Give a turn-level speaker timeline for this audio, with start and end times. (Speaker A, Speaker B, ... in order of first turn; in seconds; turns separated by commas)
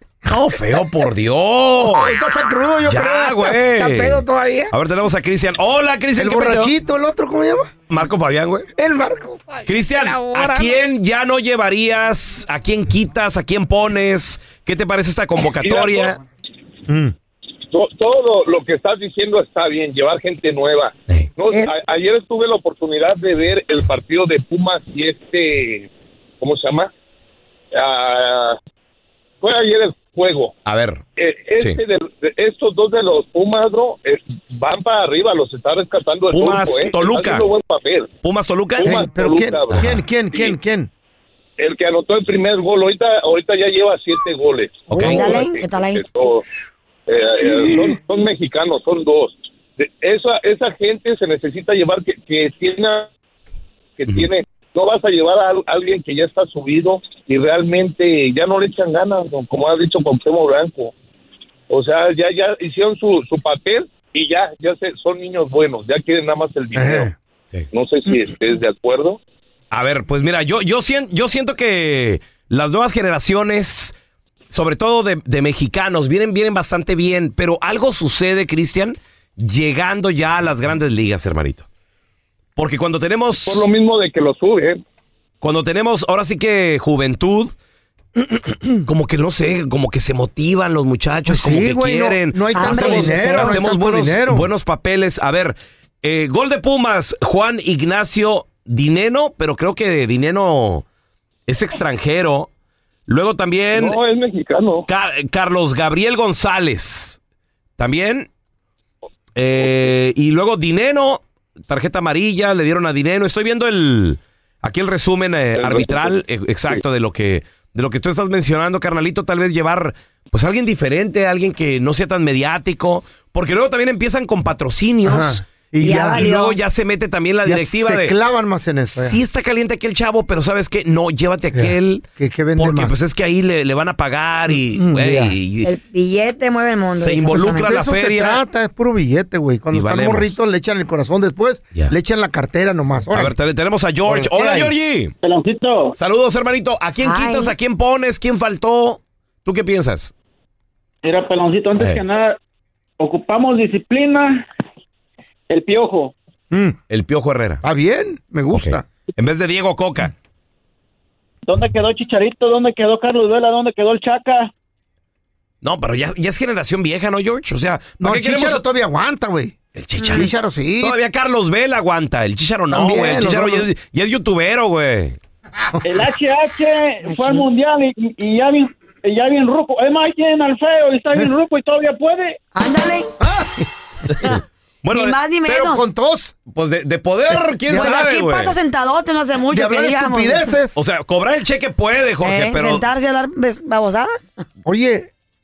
Speaker A: 0.2-2.1, Speaker B: 1.9-4.7, Speaker A: 2.8-6.7, Speaker B: 6.2-7.7, Speaker A: 7.9-8.7, Speaker B: 8.8-10.7, Speaker A: 9.7-16.2, Speaker C: 15.6-16.1, Speaker B: 16.9-17.1, Speaker C: 17.7-25.9, Speaker C: 26.4-26.9, Speaker C: 27.7-28.6, Speaker C: 29.4-30.5, Speaker A: 30.6-31.0, Speaker C: 31.2-38.1, Speaker A: 36.3-37.5, Speaker A: 38.2-39.0, Speaker C: 38.8-40.5, Speaker B: 38.8-40.9, Speaker A: 39.7-40.0, Speaker C: 41.6-46.4, Speaker A: 44.9-45.4, Speaker D: 44.9-46.0, Speaker C: 47.1-53.1, Speaker C: 54.0-60.9, Speaker C: 61.7-67.1, Speaker B: 66.7-67.1, Speaker C: 67.7-69.2, Speaker A: 69.7-73.9, Speaker A: 74.5-81.7, Speaker A: 82.6-83.7, Speaker C: 83.5-84.8, Speaker A: 85.4-87.5, Speaker A: 88.8-100.8, Speaker B: 91.2-94.5, Speaker D: 92.5-93.6, Speaker A: 101.5-102.5, Speaker A: 103.1-104.0, Speaker C: 103.7-104.9, Speaker A: 104.9-107.2, Speaker A: 107.8-108.3, Speaker A: 109.3-125.4, Speaker C: 115.5-116.1, Speaker B: 125.0-126.3, Speaker D: 125.8-126.5, Speaker A: 126.1-128.1, Speaker B: 127.4-129.2, Speaker A: 128.9-132.0, Speaker B: 131.5-132.9, Speaker A: 132.6-135.7, Speaker B: 134.5-135.3, Speaker D: 135.6-137.7, Speaker A: 137.0-138.4, Speaker B: 137.3-143.3, Speaker A: 139.7-140.3, Speaker A: 143.1-145.1, Speaker B: 144.1-144.7, Speaker E: 145.2-145.9, Speaker A: 146.0-150.1, Speaker D: 147.0-147.5, Speaker E: 151.0-152.4, Speaker A: 151.8-152.0, Speaker E: 153.0-154.4, Speaker E: 155.5-156.1, Speaker B: 156.5-156.8, Speaker A: 156.9-157.6, Speaker B: 157.6-158.8, Speaker A: 158.5-160.1, Speaker E: 161.4-164.5, Speaker A: 165.6-168.6, Speaker B: 168.0-170.9, Speaker A: 169.7-175.2, Speaker B: 172.7-173.7, Speaker E: 175.8-182.4, Speaker D: 177.0-177.4, Speaker D: 182.5-183.1, Speaker B: 183.2-183.5, Speaker A: 184.2-185.2, Speaker D: 184.9-185.9, Speaker B: 185.4-186.3, Speaker A: 186.5-188.6, Speaker B: 187.7-188.0, Speaker D: 187.7-190.5, Speaker B: 189.5-190.8, Speaker A: 190.7-192.8, Speaker D: 192.2-194.1, Speaker B: 194.6-195.1